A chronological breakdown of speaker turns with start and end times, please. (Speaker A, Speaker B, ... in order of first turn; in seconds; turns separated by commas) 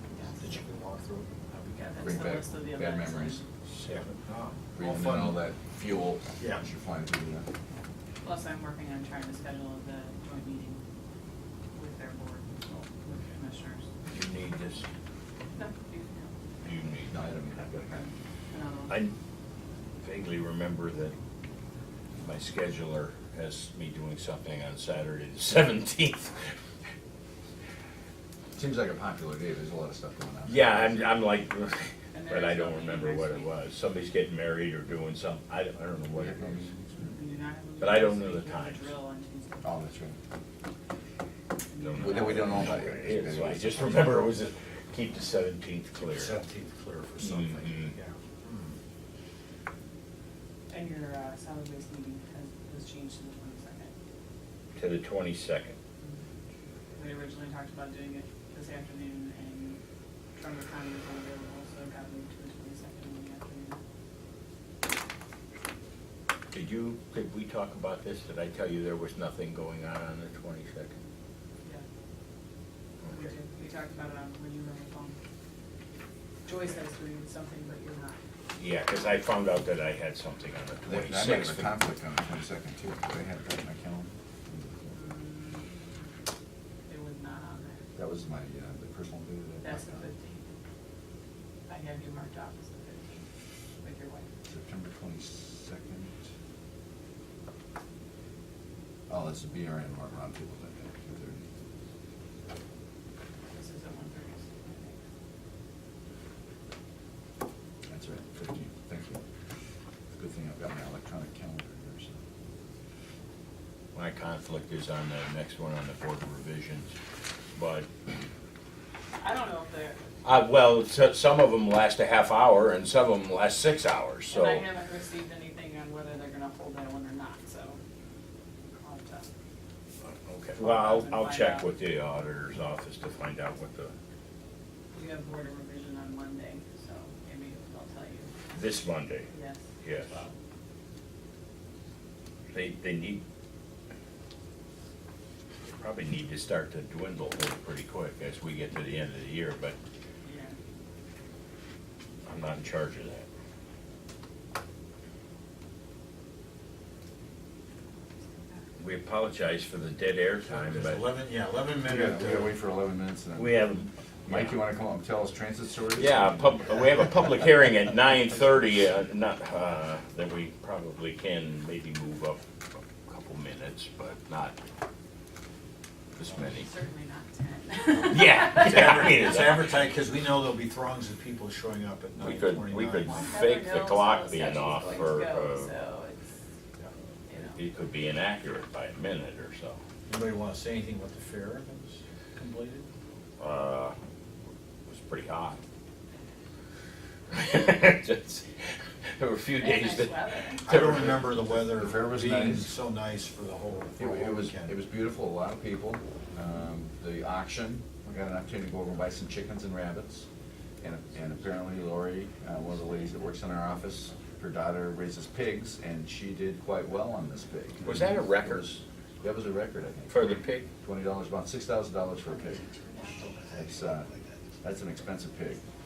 Speaker A: 0.1-0.6, Speaker B: 0.4-1.3, Speaker A: 1.6-3.5, Speaker C: 2.0-3.4, Speaker D: 3.7-4.2, Speaker B: 3.9-5.4, Speaker C: 4.8-7.5, Speaker B: 6.4-6.7, Speaker A: 8.2-10.8, Speaker A: 11.7-13.9, Speaker D: 14.1-14.9, Speaker A: 15.5-16.8, Speaker D: 16.6-17.3, Speaker C: 17.1-18.1, Speaker A: 18.5-19.0, Speaker D: 18.9-19.1, Speaker D: 20.0-21.1, Speaker D: 22.2-26.4, Speaker C: 28.6-31.1, Speaker D: 30.5-36.7, Speaker A: 32.1-33.5, Speaker C: 36.1-36.9, Speaker A: 36.9-39.7, Speaker D: 37.8-39.0, Speaker C: 39.6-40.2, Speaker A: 41.7-42.6, Speaker D: 41.8-46.4, Speaker C: 42.0-44.2, Speaker B: 46.0-48.8, Speaker D: 47.2-47.9, Speaker A: 50.7-53.9, Speaker D: 54.8-55.8, Speaker A: 56.9-59.8, Speaker A: 60.4-63.8, Speaker D: 66.5-71.0, Speaker A: 73.1-75.2, Speaker A: 76.5-78.2, Speaker D: 78.6-81.8, Speaker C: 80.8-85.0, Speaker A: 84.9-85.7, Speaker A: 86.9-87.8, Speaker C: 88.0-90.1, Speaker A: 89.6-90.5, Speaker A: 91.7-93.3, Speaker A: 93.8-94.3, Speaker C: 94.5-96.2, Speaker C: 99.1-101.5, Speaker A: 103.5-105.0, Speaker C: 107.9-109.2, Speaker C: 110.1-112.2, Speaker D: 113.9-116.9, Speaker D: 117.5-117.9, Speaker A: 119.2-120.0, Speaker D: 120.2-124.7, Speaker A: 124.3-127.8, Speaker A: 128.8-129.3, Speaker D: 130.1-133.9, Speaker A: 130.6-131.7, Speaker A: 134.9-138.5, Speaker D: 138.5-139.3, Speaker A: 139.3-140.3, Speaker D: 139.8-140.1, Speaker D: 142.5-143.2, Speaker D: 145.7-149.8, Speaker A: 150.2-150.6, Speaker D: 152.3-153.3, Speaker D: 158.8-161.0, Speaker B: 160.5-162.5, Speaker C: 161.8-163.7, Speaker D: 163.3-164.6, Speaker C: 164.3-166.5, Speaker D: 166.0-172.4, Speaker D: 173.0-174.6, Speaker D: 176.2-176.7, Speaker A: 176.6-178.9, Speaker D: 178.0-179.8, Speaker B: 178.6-183.3, Speaker D: 182.2-185.8, Speaker A: 183.0-186.3, Speaker A: 187.3-187.6, Speaker D: 187.4-189.8, Speaker B: 190.1-192.9, Speaker D: 193.4-193.9, Speaker D: 194.9-195.6, Speaker D: 197.3-198.5, Speaker D: 199.2-201.4, Speaker A: 199.6-200.7, Speaker B: 200.7-204.8, Speaker C: 201.7-202.7, Speaker C: 204.0-210.3, Speaker C: 210.8-222.6, Speaker D: 217.8-218.7, Speaker D: 220.1-220.7, Speaker B: 223.2-223.6, Speaker C: 223.6-224.1, Speaker C: 224.6-225.6